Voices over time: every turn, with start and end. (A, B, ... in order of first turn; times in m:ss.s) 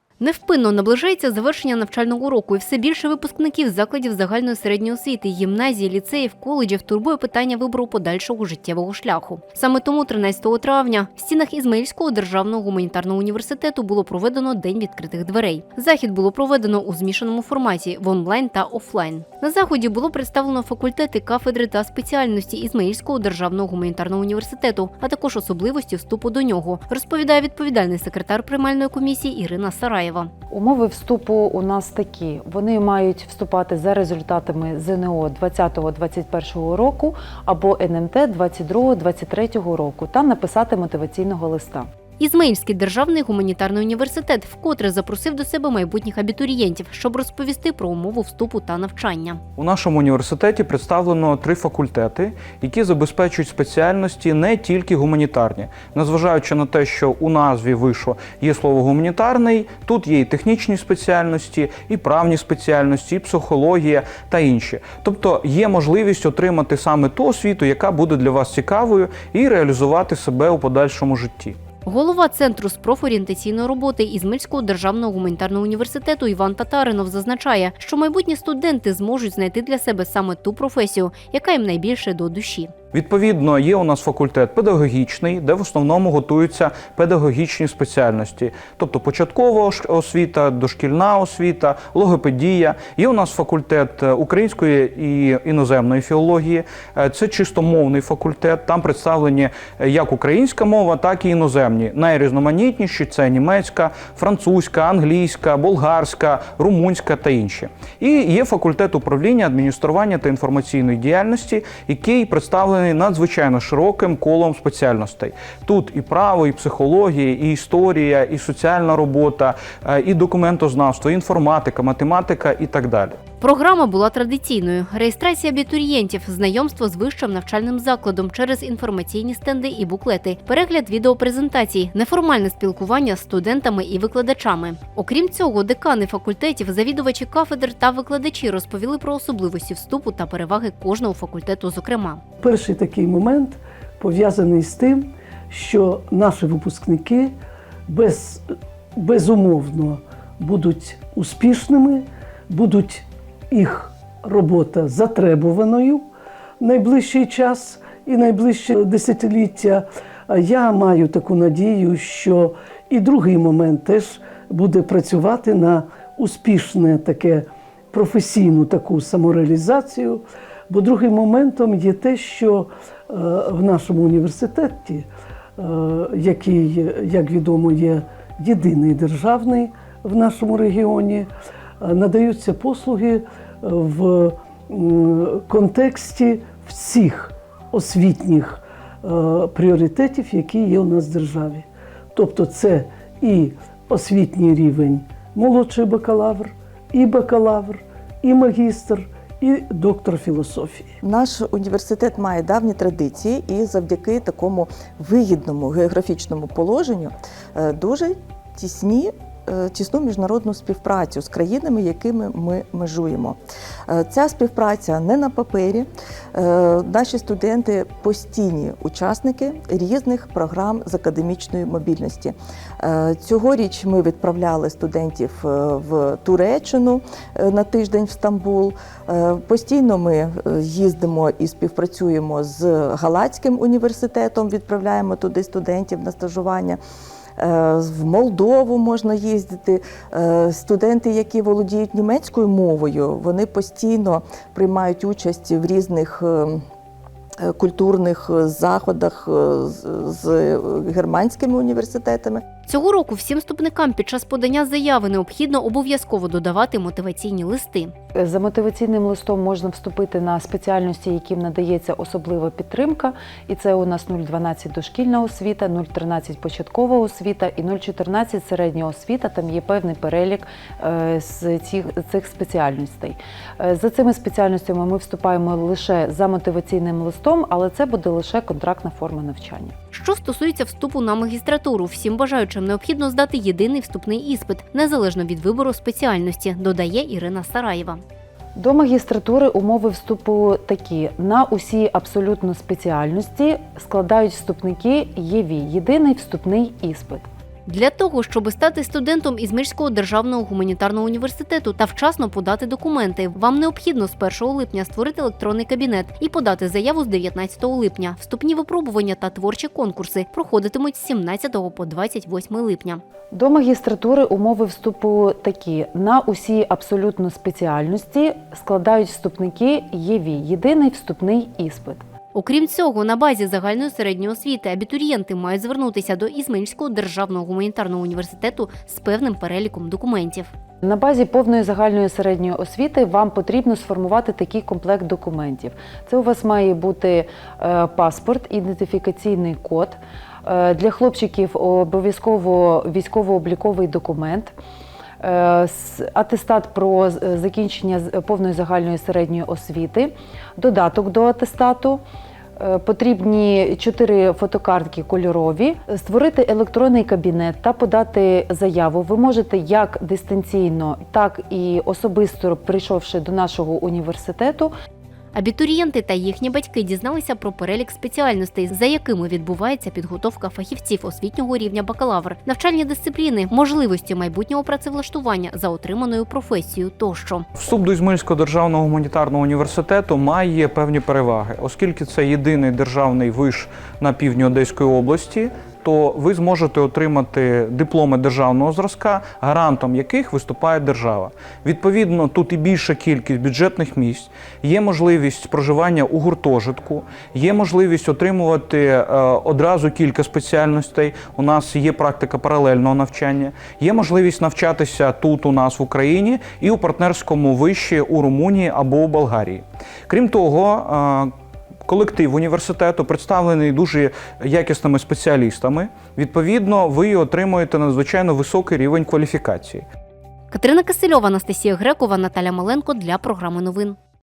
0:00.2-0:30.3 A
0:30.5-0:41.9 B
0:42.2-0:49.4 A
0:49.6-1:11.6 C
1:11.9-1:22.7 A
1:22.9-2:03.2 C
2:03.4-2:22.2 A
2:22.4-2:27.4 D
2:27.9-2:36.0 D
2:36.6-2:55.1 D
2:55.6-3:01.3 D
3:01.8-3:21.0 D
3:21.0-3:56.8 E
3:57.4-4:06.6 E
4:07.4-4:12.4 E
4:12.7-4:17.9 A
4:18.2-4:39.8 B
4:39.9-4:48.0 A
4:48.6-4:57.3 B
4:57.7-5:13.0 A
5:13.3-5:22.0 B
5:22.3-5:30.5 A
5:30.8-5:44.5 B
5:45.2-5:52.0 B
5:52.6-6:04.7 B
6:05.3-6:17.4 A
6:17.6-6:51.3 C
6:51.9-6:59.9 C
7:00.5-7:04.0 A